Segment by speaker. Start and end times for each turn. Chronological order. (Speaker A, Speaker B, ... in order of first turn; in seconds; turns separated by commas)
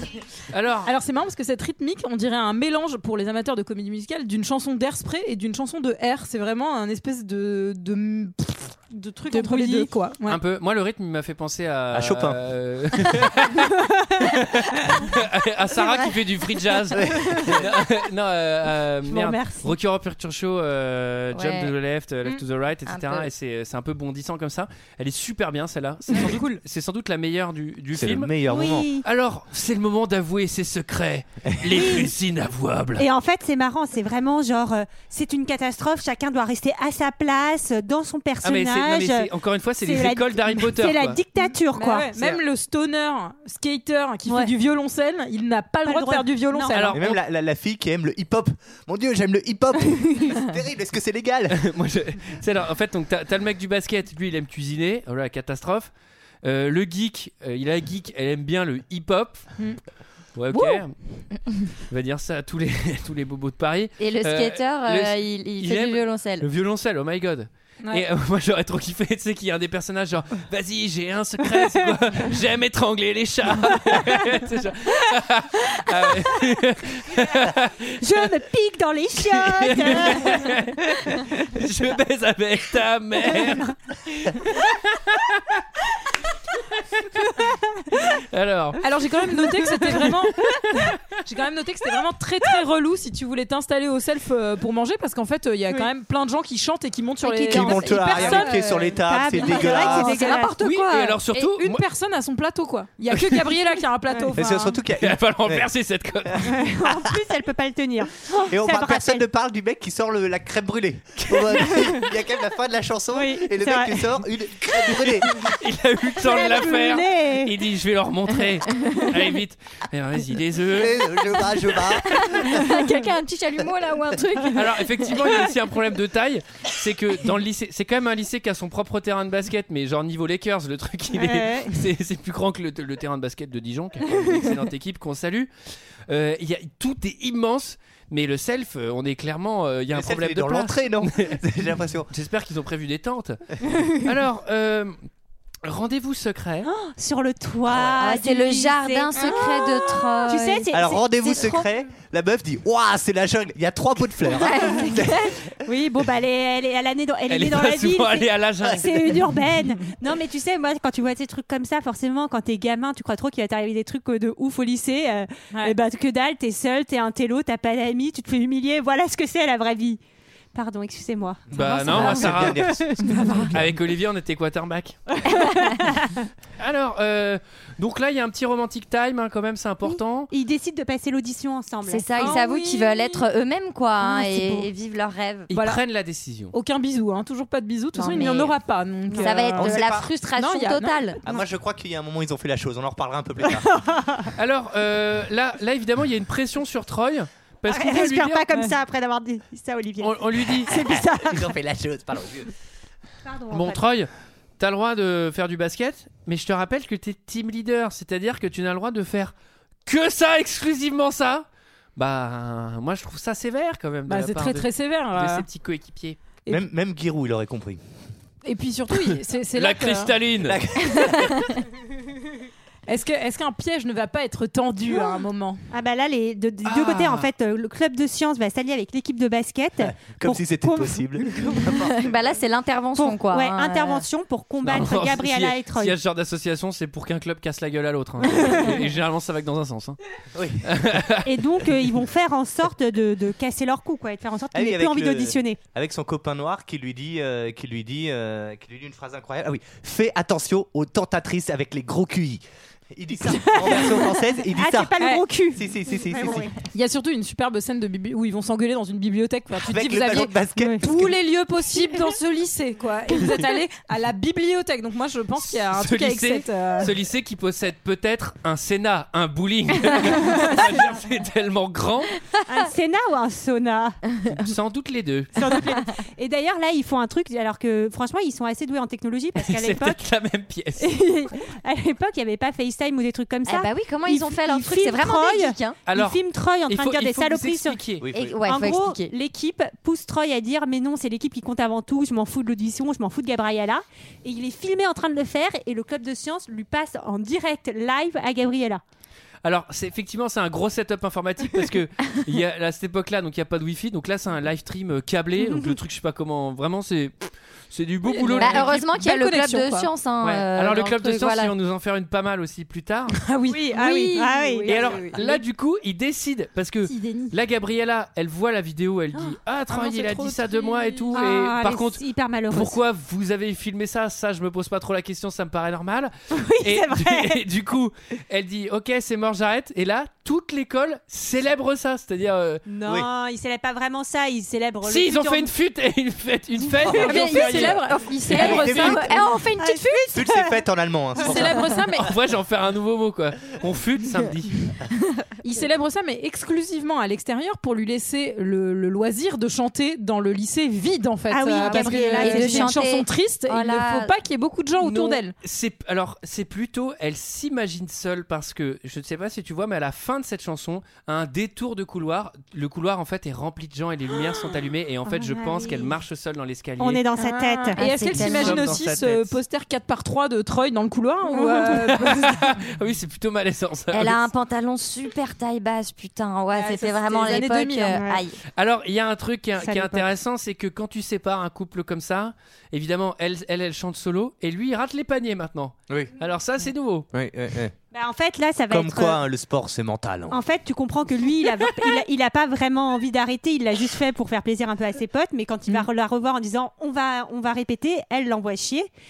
Speaker A: 0.5-0.9, Speaker B: 0.8-10.4, Speaker C: 9.3-9.9, Speaker A: 10.2-28.3, Speaker D: 11.9-12.4, Speaker D: 16.9-17.6, Speaker C: 19.1-19.7, Speaker E: 21.3-21.7, Speaker E: 22.9-23.3, Speaker D: 27.9-28.9, Speaker C: 28.5-29.0, Speaker A: 29.0-33.0, Speaker C: 31.7-32.1, Speaker C: 33.0-42.1, Speaker A: 38.4-41.2, Speaker B: 41.4-47.0, Speaker C: 44.3-44.5, Speaker C: 45.9-46.9, Speaker A: 46.7-47.2, Speaker D: 46.9-51.6, Speaker A: 51.5-55.9, Speaker A: 56.4-59.7, Speaker A: 60.3-78.3, Speaker E: 64.0-66.5, Speaker C: 78.0-80.5, Speaker A: 79.2-85.6, Speaker A: 86.7-87.2, Speaker A: 87.9-88.9, Speaker B: 88.8-90.4, Speaker B: 91.1-98.9, Speaker C: 97.2-100.6, Speaker D: 97.5-100.1, Speaker E: 99.5-101.2, Speaker B: 99.7-100.5, Speaker A: 100.6-101.8, Speaker B: 101.3-104.8, Speaker A: 103.1-103.5, Speaker D: 104.3-105.7, Speaker A: 105.0-106.6, Speaker C: 106.4-109.2, Speaker D: 108.3-115.3, Speaker A: 111.2-112.0, Speaker C: 113.1-114.2, Speaker A: 115.2-122.2, Speaker C: 116.2-117.5, Speaker D: 120.7-122.6, Speaker E: 122.2-125.2, Speaker A: 124.5-135.5, Speaker C: 131.2-131.7, Speaker A: 136.1-141.4, Speaker D: 139.9-142.1, Speaker A: 142.1-144.9, Speaker A: 145.6-146.7, Speaker C: 146.6-151.7, Speaker E: 148.0-150.7, Speaker D: 150.7-155.3, Speaker E: 154.3-155.3, Speaker C: 154.5-155.0, Speaker C: 155.6-170.0, Speaker A: 157.3-159.2, Speaker C: 170.5-173.5, Speaker D: 171.5-173.7, Speaker A: 171.5-172.8, Speaker A: 173.5-175.0, Speaker C: 175.3-176.2, Speaker A: 176.6-180.3, Speaker C: 180.3-182.3, Speaker E: 181.8-185.5, Speaker B: 182.1-183.3, Speaker C: 184.0-184.7, Speaker A: 185.5-186.5, Speaker B: 185.5-185.8, Speaker B: 186.5-191.1, Speaker E: 187.9-188.6, Speaker C: 189.1-189.5, Speaker E: 189.2-191.2, Speaker D: 189.6-190.1, Speaker D: 191.2-193.7, Speaker C: 193.4-194.3, Speaker A: 194.4-198.5, Speaker C: 197.7-201.5, Speaker A: 200.0-200.7, Speaker D: 200.7-202.5, Speaker C: 203.2-203.8, Speaker A: 203.5-209.3, Speaker A: 209.8-216.2, Speaker B: 214.1-215.5, Speaker D: 216.5-217.8, Speaker B: 218.4-220.2, Speaker A: 219.1-220.6, Speaker D: 220.4-221.4, Speaker B: 222.9-225.6, Speaker C: 224.9-225.2, Speaker C: 225.7-231.9, Speaker A: 226.6-227.3, Speaker D: 229.8-232.1, Speaker E: 231.9-234.1, Speaker C: 232.9-236.0, Speaker A: 234.6-240.0, Speaker C: 238.3-238.8, Speaker D: 240.3-240.7, Speaker A: 240.6-241.3, Speaker C: 241.2-245.6, Speaker D: 244.5-254.9, Speaker C: 253.2-256.6, Speaker B: 255.0-255.3, Speaker D: 255.5-256.5, Speaker B: 256.7-266.9, Speaker D: 259.5-261.2, Speaker C: 260.6-260.8, Speaker A: 265.4-272.2, Speaker C: 272.5-274.0, Speaker A: 274.3-275.3, Speaker C: 275.3-280.0, Speaker A: 279.4-281.0, Speaker C: 280.8-287.8, Speaker E: 283.4-285.8, Speaker A: 285.9-288.1, Speaker D: 288.0-288.4, Speaker E: 288.1-289.1, Speaker C: 288.4-298.8, Speaker A: 299.4-308.8, Speaker B: 308.0-309.9, Speaker E: 308.4-311.5, Speaker A: 310.2-313.2, Speaker B: 313.1-315.4, Speaker C: 313.5-315.1, Speaker A: 314.7-332.6, Speaker B: 316.9-317.3, Speaker B: 319.7-321.3, Speaker C: 321.1-322.8, Speaker C: 326.3-327.4, Speaker C: 332.7-335.5, Speaker A: 334.8-337.8, Speaker C: 336.8-337.8, Speaker B: 336.9-339.2, Speaker E: 337.1-340.1, Speaker D: 338.3-339.0, Speaker C: 338.3-340.6, Speaker D: 340.1-341.7, Speaker B: 341.2-342.1, Speaker A: 342.0-344.6, Speaker B: 345.4-355.3, Speaker C: 351.3-352.8, Speaker E: 351.6-354.1, Speaker A: 354.8-367.0, Speaker C: 365.1-365.9, Speaker C: 366.8-368.5, Speaker B: 367.1-372.5, Speaker E: 367.8-368.8, Speaker A: 368.1-369.4, Speaker C: 371.3-371.6, Speaker A: 371.7-374.3, Speaker E: 373.9-378.4, Speaker B: 376.5-378.0, Speaker A: 378.6-387.1, Speaker C: 379.6-380.1, Speaker D: 387.1-387.7, Speaker C: 387.9-389.2, Speaker D: 388.7-390.4, Speaker C: 390.3-398.9